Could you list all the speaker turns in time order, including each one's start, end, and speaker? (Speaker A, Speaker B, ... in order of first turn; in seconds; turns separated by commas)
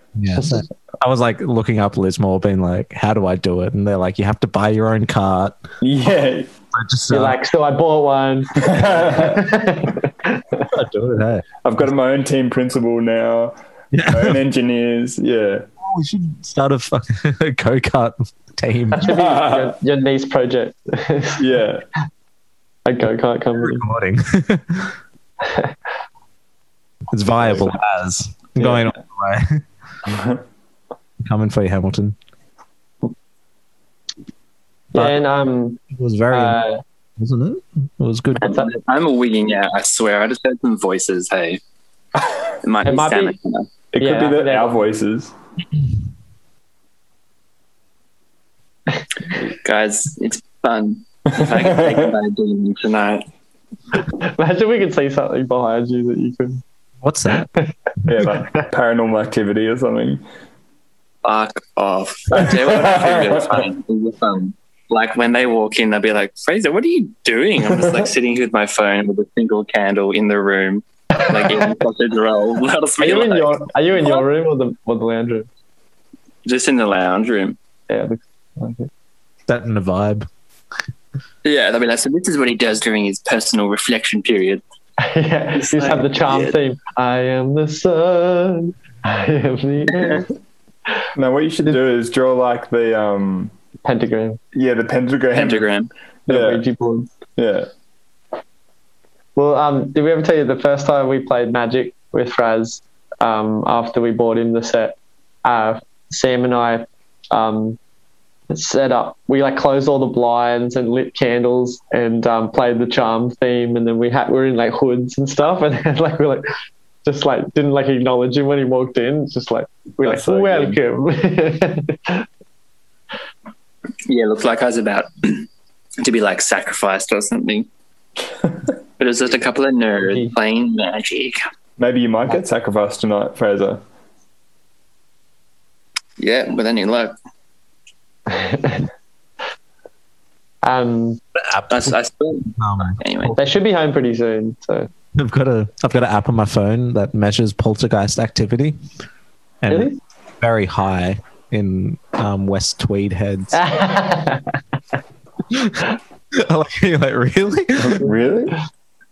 Speaker A: 0.1-5.6, Speaker B: 0.3-0.6, Speaker C: 5.8-6.5, Speaker A: 6.7-7.4, Speaker B: 7.1-10.7, Speaker C: 8.6-9.5, Speaker A: 10.7-11.4, Speaker C: 11.6-13.5, Speaker A: 13.9-14.4, Speaker C: 14.1-15.7, Speaker A: 15.8-19.2, Speaker B: 18.9-21.4, Speaker C: 19.0-19.7, Speaker C: 21.4-21.8, Speaker B: 22.9-23.9, Speaker A: 23.6-24.9, Speaker B: 25.4-25.7, Speaker A: 27.1-29.6, Speaker C: 30.1-30.4, Speaker A: 31.2-32.1, Speaker B: 34.9-36.8, Speaker A: 35.9-36.6, Speaker A: 37.2-38.5, Speaker D: 38.4-41.6, Speaker B: 38.4-38.7, Speaker D: 42.6-43.7, Speaker B: 42.8-43.3, Speaker C: 43.9-45.3, Speaker B: 44.0-44.8, Speaker D: 49.4-53.2, Speaker C: 51.4-52.1, Speaker B: 54.1-56.6, Speaker A: 57.0-57.5, Speaker C: 58.0-60.2, Speaker D: 61.2-74.2, Speaker C: 62.4-63.7, Speaker B: 73.0-75.5, Speaker D: 76.4-77.6, Speaker B: 77.9-78.9, Speaker A: 79.5-80.3, Speaker D: 81.4-84.6, Speaker B: 85.0-90.2, Speaker D: 85.6-86.5, Speaker D: 89.9-90.2, Speaker C: 91.1-93.5, Speaker B: 93.8-94.4, Speaker C: 94.5-95.7, Speaker D: 95.3-95.9, Speaker B: 96.3-97.1, Speaker C: 96.3-96.6, Speaker C: 97.4-97.7, Speaker B: 99.3-107.8, Speaker B: 108.5-116.5, Speaker B: 117.0-122.2, Speaker C: 120.0-120.8, Speaker D: 124.0-125.5, Speaker D: 126.0-127.7, Speaker D: 129.0-131.4, Speaker B: 130.0-130.3, Speaker C: 131.8-133.8, Speaker D: 136.2-137.1, Speaker B: 138.3-138.8, Speaker B: 140.6-141.2, Speaker A: 141.5-141.9, Speaker D: 141.7-143.3, Speaker A: 142.6-143.4, Speaker B: 143.3-144.9, Speaker A: 145.1-148.8, Speaker A: 149.6-153.6, Speaker B: 149.7-150.0, Speaker B: 153.5-154.6, Speaker A: 155.5-155.8, Speaker A: 156.3-158.1, Speaker C: 157.8-158.6